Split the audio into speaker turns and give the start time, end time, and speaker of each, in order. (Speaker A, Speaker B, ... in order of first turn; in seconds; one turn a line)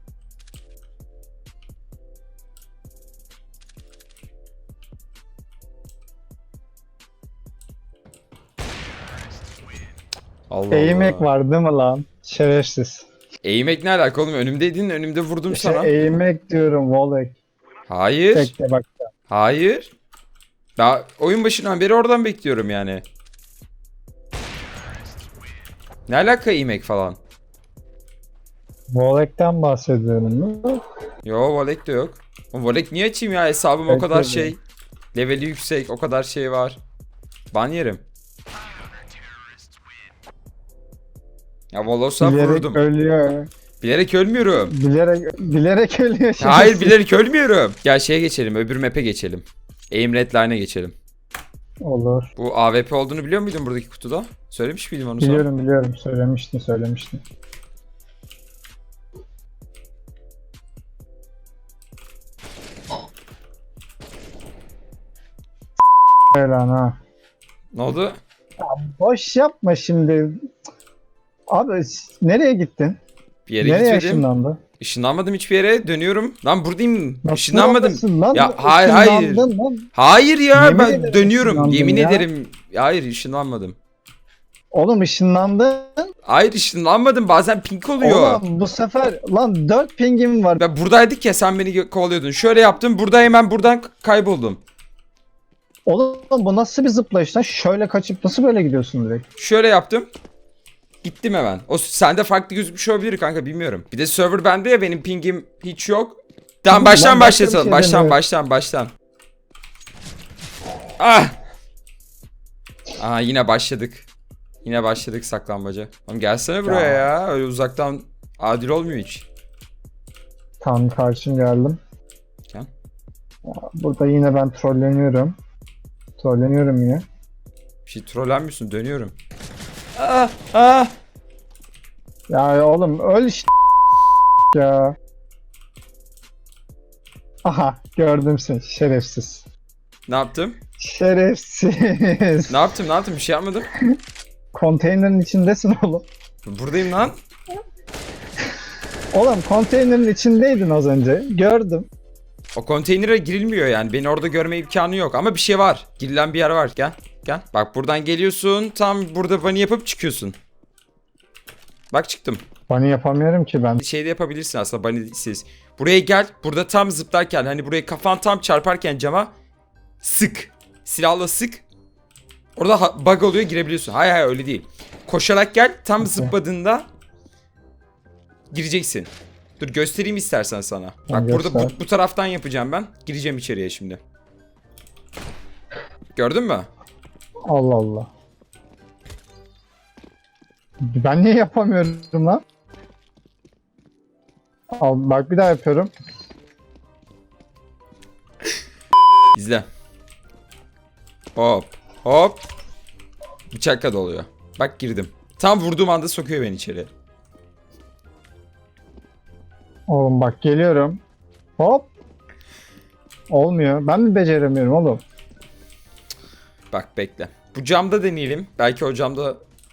Speaker A: 10.5-11.3
Speaker B: 10.7-13.1
Speaker A: 13.4-15.9
Speaker B: 15.5-17.4
Speaker A: 17.9-18.5
Speaker B: 18.3-18.9
Speaker A: 19.3-19.9
Speaker A: 20.8-23.0
Speaker A: 26.1-27.2
Speaker B: 28.9-30.8
Speaker A: 31.2-34.6
Speaker B: 33.9-34.5
Speaker A: 35.1-36.8
Speaker A: 37.5-38.0
Speaker A: 41.7-42.8
Speaker B: 42.2-43.5
Speaker A: 43.8-44.7
Speaker B: 44.6-47.0
Speaker A: 46.4-51.0
Speaker B: 51.8-52.3
Speaker A: 52.4-55.5
Speaker B: 55.2-57.2
Speaker B: 66.3-67.0
Speaker A: 67.7-68.2
Speaker B: 68.6-70.5
Speaker B: 71.5-73.0
Speaker A: 73.5-74.3
Speaker B: 73.6-74.6
Speaker A: 74.8-83.8
Speaker B: 77.2-79.9
Speaker B: 80.5-82.3
Speaker B: 84.7-86.0
Speaker A: 86.3-88.4
Speaker B: 88.0-90.6
Speaker A: 90.6-94.6
Speaker B: 95.9-99.2
Speaker A: 99.4-100.1
Speaker A: 101.0-108.9
Speaker B: 106.7-108.2
Speaker A: 111.0-111.3
Speaker A: 113.0-114.1
Speaker A: 114.6-119.3
Speaker B: 116.7-117.1
Speaker B: 120.6-121.8
Speaker B: 123.5-125.3
Speaker B: 126.2-127.0
Speaker A: 127.9-129.1
Speaker A: 130.0-130.9
Speaker B: 132.3-133.5
Speaker B: 134.5-134.9
Speaker B: 137.4-139.4
Speaker A: 140.1-140.6
Speaker B: 140.8-142.6
Speaker A: 142.5-143.7
Speaker B: 144.5-146.1
Speaker A: 146.5-147.2
Speaker B: 149.1-151.9
Speaker A: 152.6-160.4
Speaker A: 161.9-162.4
Speaker B: 162.7-163.8
Speaker A: 163.8-169.3
Speaker A: 170.0-171.7
Speaker A: 172.6-176.9
Speaker B: 176.0-176.3
Speaker A: 178.5-184.0
Speaker B: 181.1-181.8
Speaker A: 186.2-186.7
Speaker B: 187.5-188.1
Speaker B: 190.9-192.4
Speaker B: 194.8-195.9
Speaker A: 199.3-199.7
Speaker A: 201.4-202.4
Speaker A: 203.5-206.9
Speaker B: 209.9-211.0
Speaker B: 211.6-211.9
Speaker B: 213.3-215.0
Speaker A: 216.7-219.4